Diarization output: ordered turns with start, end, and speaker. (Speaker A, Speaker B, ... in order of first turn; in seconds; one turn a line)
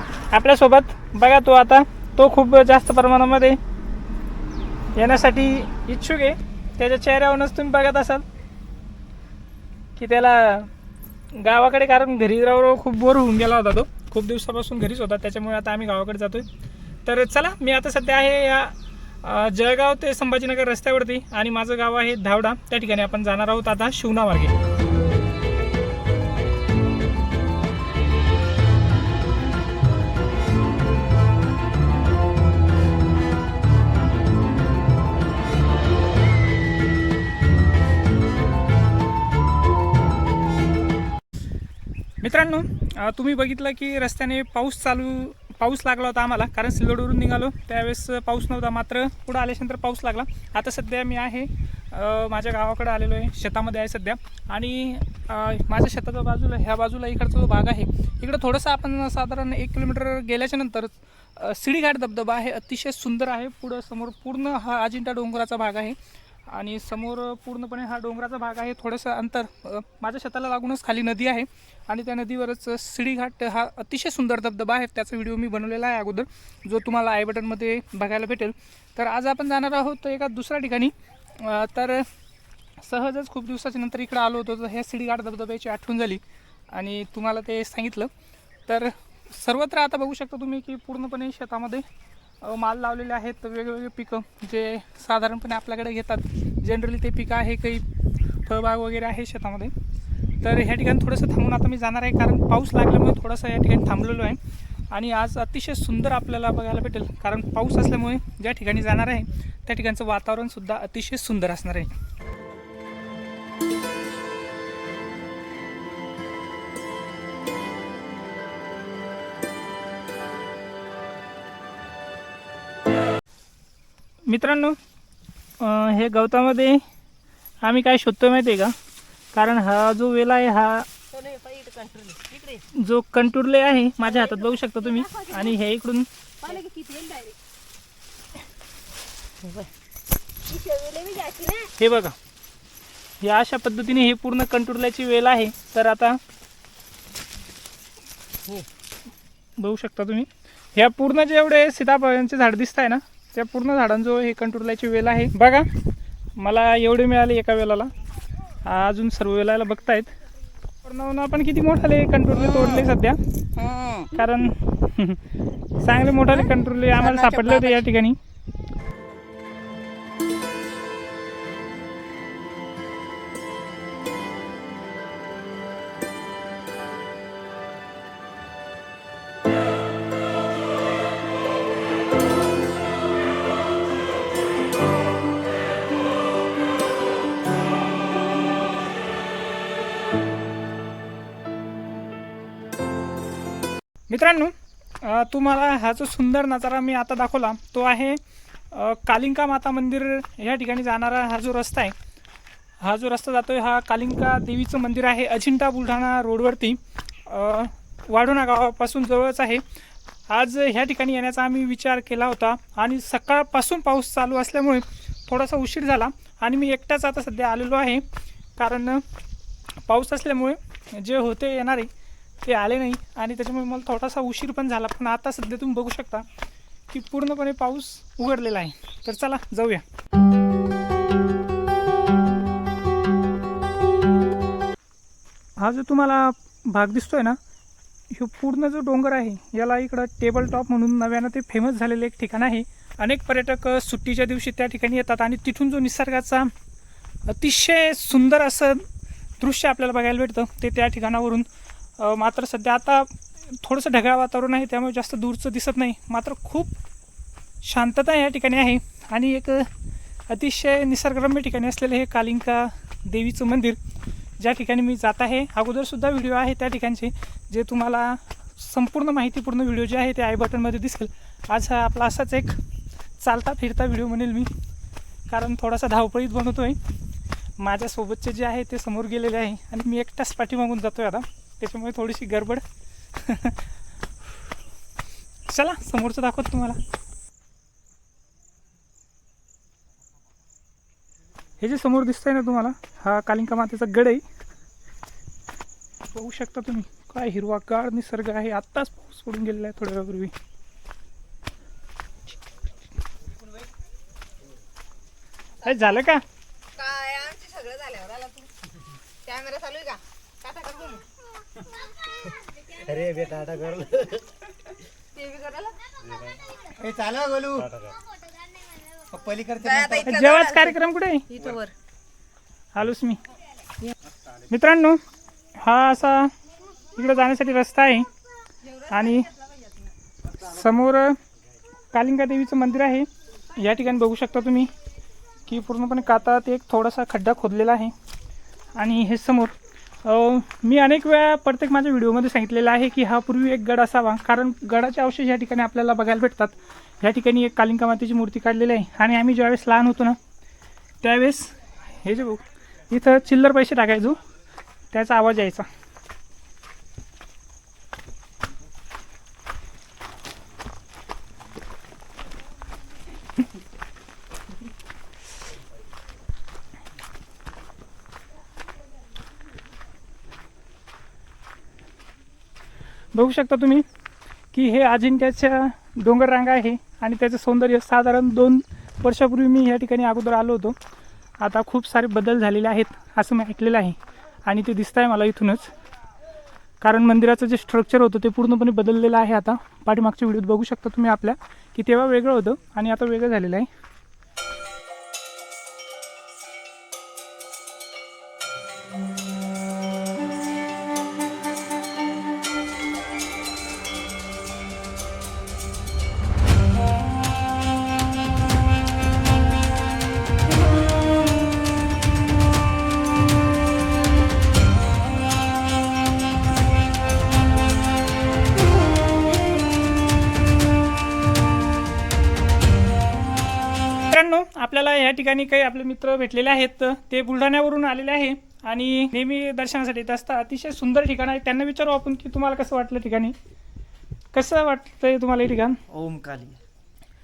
Speaker A: 0.3-3.6
Speaker A: 5.0-8.2
Speaker A: 10.0-10.7
Speaker A: 11.3-16.5
Speaker A: 17.1-24.6
Speaker A: 42.2-82.1
Speaker A: 82.8-88.1
Speaker A: 88.7-91.9
Speaker A: 92.4-97.9
Speaker A: 98.4-99.8
Speaker A: 100.4-112.0
Speaker A: 124.3-124.8
Speaker A: 125.6-126.8
Speaker A: 127.6-128.8
Speaker A: 129.3-130.9
Speaker B: 131.1-132.6
Speaker A: 132.7-136.1
Speaker B: 134.5-135.5
Speaker B: 136.4-137.4
Speaker B: 140.4-141.7
Speaker A: 141.8-142.2
Speaker A: 143.2-146.2
Speaker A: 149.6-155.7
Speaker A: 156.4-157.9
Speaker A: 158.6-160.1
Speaker A: 160.8-163.2
Speaker B: 163.6-164.1
Speaker A: 164.1-165.2
Speaker A: 165.8-168.2
Speaker B: 166.9-167.8
Speaker A: 194.1-201.9
Speaker A: 202.8-209.6
Speaker A: 210.3-219.1
Speaker A: 219.8-221.9
Speaker A: 222.4-226.3
Speaker A: 226.9-229.8
Speaker A: 235.6-237.4
Speaker A: 238.1-246.5
Speaker A: 247.3-248.9
Speaker A: 249.4-251.5
Speaker A: 252.0-256.8
Speaker A: 257.6-259.7
Speaker A: 260.3-263.8
Speaker A: 264.4-272.6
Speaker A: 273.2-274.5
Speaker A: 275.3-276.8
Speaker A: 277.6-283.7
Speaker A: 285.5-286.8
Speaker A: 291.6-294.2
Speaker A: 296.1-300.3
Speaker A: 305.6-306.2
Speaker B: 306.7-308.5
Speaker B: 309.2-311.1
Speaker C: 312.7-314.2
Speaker B: 315.1-315.8
Speaker C: 316.6-317.9
Speaker B: 318.7-320.7
Speaker C: 319.1-320.1
Speaker A: 320.0-321.3
Speaker B: 321.3-321.7
Speaker A: 322.7-323.2
Speaker A: 324.5-325.0
Speaker A: 325.6-326.3
Speaker A: 326.9-328.1
Speaker B: 328.6-329.4
Speaker A: 328.7-329.3
Speaker A: 330.3-331.2
Speaker A: 331.9-334.7
Speaker A: 335.5-337.9
Speaker A: 338.8-350.2
Speaker A: 351.0-354.2
Speaker A: 354.9-355.7
Speaker A: 373.1-373.9
Speaker A: 374.5-380.8
Speaker A: 381.4-385.7
Speaker A: 386.8-393.7
Speaker A: 424.1-433.4
Speaker A: 434.3-435.8
Speaker C: 435.9-436.6